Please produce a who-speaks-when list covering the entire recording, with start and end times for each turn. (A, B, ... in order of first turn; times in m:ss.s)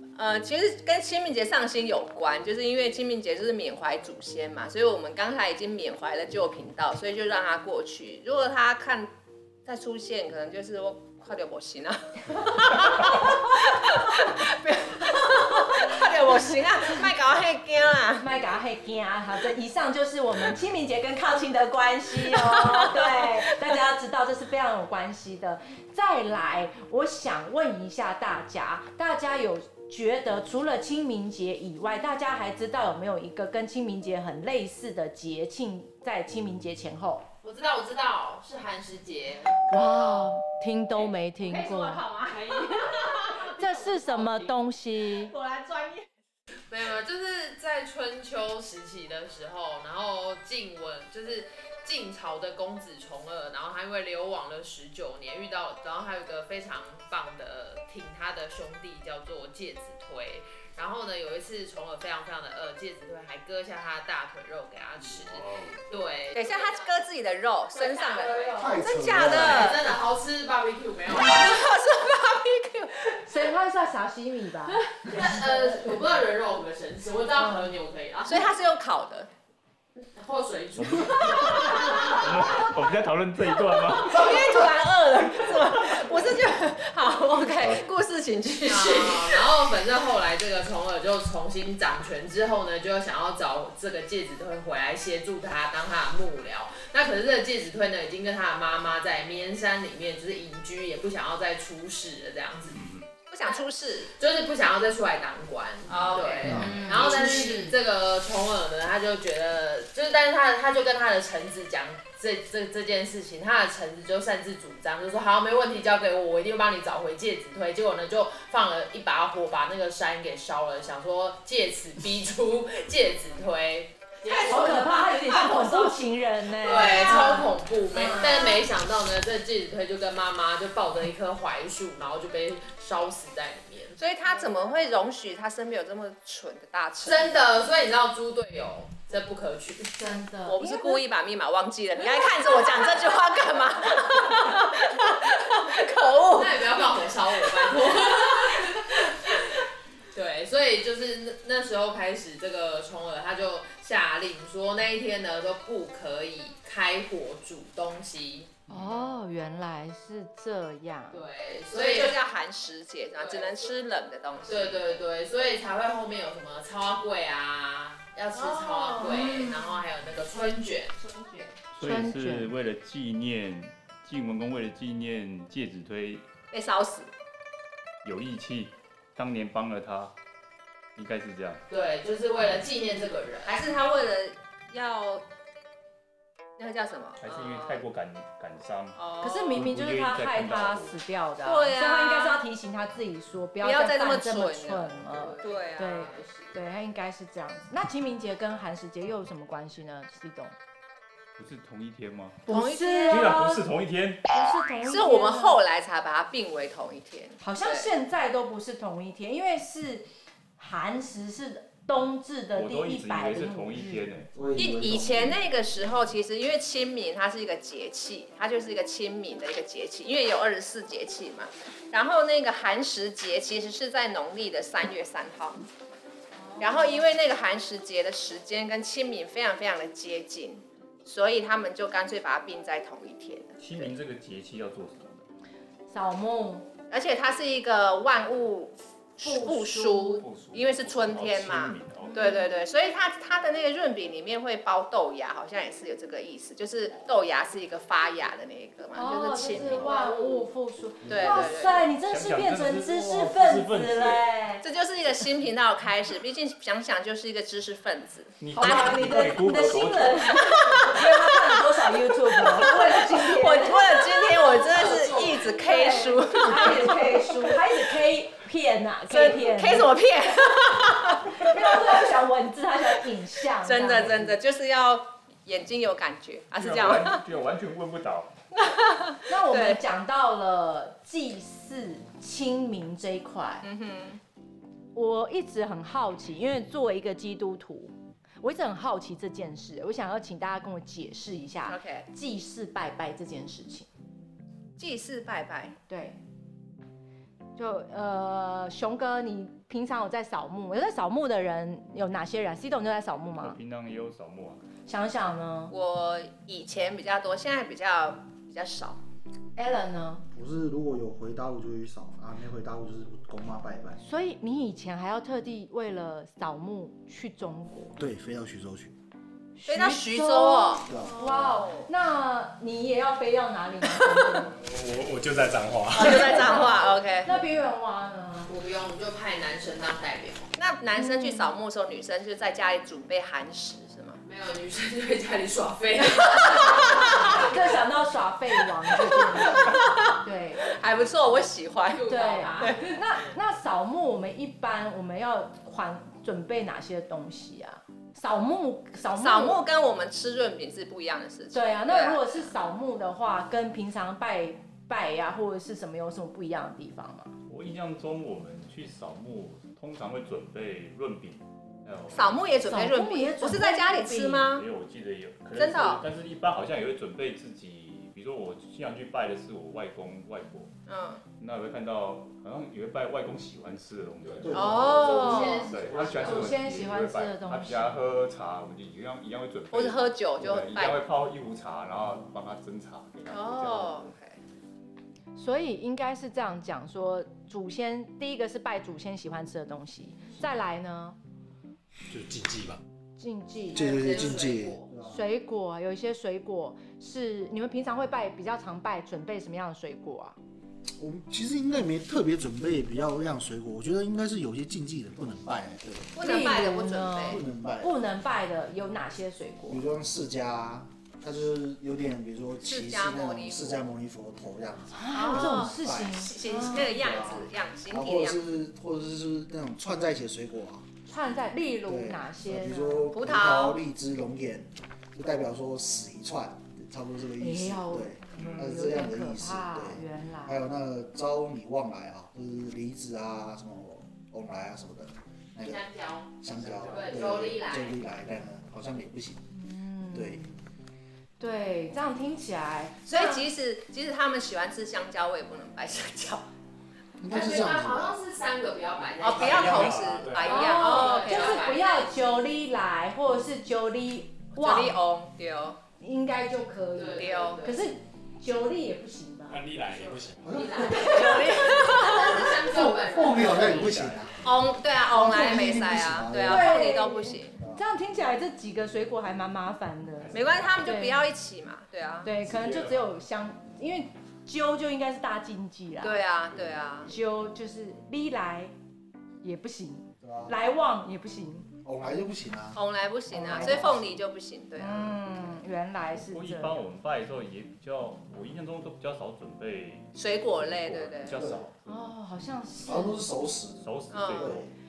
0:00.2-0:09.1 A
0:09.6-0:18.2 A
0:18.2-0:37.2 B
0:22.3-0:23.3 A
0:37.4-0:40.2 C
0:39.7-0:42.0 B
0:41.0-0:44.5 C
0:41.6-0:43.5 A
0:43.5-0:45.3 B
0:45.3-0:46.0 A
0:46.7-1:06.9 C
1:05.0-1:05.8 D
1:06.3-1:09.8 A
1:07.7-1:11.7 C
1:08.6-1:09.7 E
1:11.1-1:13.2 A
1:13.3-1:14.8 B
1:14.7-1:18.4 C
1:17.4-1:17.7 B
1:18.2-1:19.3 A
1:20.0-1:22.2 C
1:20.8-1:24.4 D
1:21.3-1:22.2 A
1:23.9-1:29.5 A
1:27.6-1:27.8 D
1:28.6-1:42.8 C
1:42.7-1:43.1 D
1:43.3-1:44.1 A
1:44.2-2:05.9 C
1:45.9-1:47.7 A
1:46.5-1:46.8 E
1:47.1-1:47.7 B
2:04.3-2:05.7 A
2:04.5-2:07.5 B
2:06.6-2:14.0 C
2:07.9-2:08.7 A
2:14.0-2:17.3 A
2:17.0-2:20.0 C
2:20.0-2:21.0 B
2:20.5-2:27.2 A
2:26.3-2:29.6 C
2:30.1-2:38.5 C
2:38.7-2:41.2 B
2:41.1-2:42.2 C
2:41.7-2:45.0 A
2:43.1-2:43.6 C
2:44.4-2:51.0 C
2:48.3-2:49.6 A
2:49.0-2:49.4 B
2:51.7-2:56.3 D
2:51.8-2:52.5 B
2:56.5-2:57.1 A
2:58.0-3:00.1 D
3:01.0-3:01.6 D
3:01.7-3:03.7 C
3:03.4-3:05.2 A
3:06.6-3:07.2 A
3:07.2-3:09.0 D
3:07.2-3:07.8 C
3:09.0-3:09.6 A
3:09.2-3:20.5 B
3:09.5-3:11.0 D
3:11.4-3:12.4 A
3:13.6-3:16.1 A
3:15.1-3:16.6 C
3:21.4-3:22.4 D
3:22.4-3:23.6 B
3:22.5-3:23.4 A
3:23.1-3:24.2 D
3:24.3-3:25.6 B
3:24.8-3:27.9 A
3:27.4-3:30.0 B
3:30.6-3:34.1 B
3:32.5-3:34.3 D
3:34.3-3:35.4 E
3:34.6-3:45.6 A
3:46.4-3:46.9 B
3:46.6-3:53.9 A
3:53.6-3:55.2 D
3:55.9-3:56.7 B
3:56.9-4:10.4 A
3:59.2-4:00.2 B
4:00.2-4:02.2 D
4:02.0-4:02.5 B
4:08.9-4:14.6 B
4:09.5-4:09.8 D
4:11.0-4:14.3 D
4:11.1-4:11.8 A
4:14.6-4:19.2 A
4:18.4-4:20.7 D
4:18.5-4:24.6 B
4:20.5-4:21.5 A
4:22.4-4:27.2 A
4:24.6-4:26.0 C
4:25.6-4:29.9 B
4:29.1-4:31.9 A
4:31.3-4:34.4 B
4:33.6-4:37.2 A
4:36.6-4:38.4 D
4:38.6-4:39.8 A
4:39.3-4:43.6 B
4:43.6-4:44.2 A
4:44.9-4:53.9 B
4:51.7-4:52.0 A
4:54.8-4:55.8 A
4:55.9-4:56.2 B
4:57.6-5:03.6 B
5:03.4-5:04.6 D
5:04.8-5:05.7 B
5:05.7-5:09.0 A
5:09.6-5:10.2 B
5:10.3-5:14.0 E
5:14.0-5:18.0 B
5:18.0-5:18.9 E
5:19.6-5:24.5 B
5:19.7-5:21.9 A
5:20.9-5:21.2 E
5:24.5-5:26.6 F
5:25.9-5:27.3 A
5:27.2-5:28.5 B
5:28.5-5:30.5 C
5:30.6-5:34.2 A
5:31.0-5:31.5 B
5:34.2-5:37.6 C
5:36.7-5:37.2 A
5:37.3-5:40.6 B
5:39.5-5:40.0 A
5:40.6-5:42.8 A
5:41.9-5:43.0 C
5:42.1-5:49.6 B
5:49.2-5:52.5 A
5:51.5-5:57.3 B
5:57.5-6:02.4 D
6:02.1-6:04.6 A
6:02.6-6:04.5 B
6:04.5-6:10.7 D
6:05.5-6:06.0 A
6:10.9-6:11.2 A
6:11.4-6:24.1 D
6:14.2-6:14.8 F
6:14.4-6:15.0 E
6:14.5-6:15.7 A
6:14.9-6:16.6 C
6:15.8-6:16.2 F
6:16.2-6:17.9 B
6:19.7-6:21.0 A
6:23.3-6:24.4 A
6:25.4-6:31.2 B
6:32.1-6:32.8 F
6:33.2-6:34.0 B
6:33.7-6:34.9 C
6:33.7-6:35.2 E
6:35.0-6:40.4 B
6:41.0-6:46.1 E
6:46.1-6:47.4 A
6:46.2-6:49.8 B
6:47.2-6:47.9 E
6:49.7-7:00.9 E
6:52.6-6:53.8 A
6:54.9-6:57.0 B
6:55.1-6:58.4 A
7:01.1-7:03.1 B
7:01.9-7:15.9 E
7:03.1-7:03.8 A
7:07.4-7:10.6 B
7:15.6-7:16.3 C
7:16.4-7:19.4 E
7:16.5-7:17.2 F
7:16.9-7:18.0 C
7:19.5-7:20.6 B
7:20.1-7:20.4 E
7:21.4-7:23.4 B
7:23.0-7:26.4 A
7:27.2-7:28.2 E
7:27.3-7:32.4 C
7:29.2-7:31.6 A
7:29.2-7:30.9 F
7:30.4-7:35.0 B
7:34.6-7:35.8 A
7:36.0-7:39.6 B
7:36.9-7:37.9 C
7:37.2-7:37.6 A
7:39.5-7:40.7 F
7:39.9-7:44.0 C
7:40.4-7:41.4 E
7:40.9-7:41.5 B
7:41.0-7:42.4 A
7:42.0-7:44.4 E
7:43.7-7:44.3 F
7:44.4-7:47.6 A
7:45.1-7:46.8 E
7:46.4-7:51.2 B
7:50.3-7:52.3 A
7:52.2-7:56.2 B
7:52.4-7:53.0 D
7:56.0-7:57.1 A
7:57.1-7:58.7 B
7:59.4-8:01.7 B
8:00.2-8:00.5 E
8:01.8-8:02.8 E
8:02.8-8:05.2 A
8:03.3-8:04.1 E
8:03.4-8:03.9 B
8:04.8-8:06.8 B
8:06.2-8:11.8 D
8:10.2-8:11.4 A
8:11.3-8:11.6 E
8:11.8-8:13.2 B
8:12.8-8:14.7 E
8:13.8-8:14.7 D
8:14.1-8:14.5 A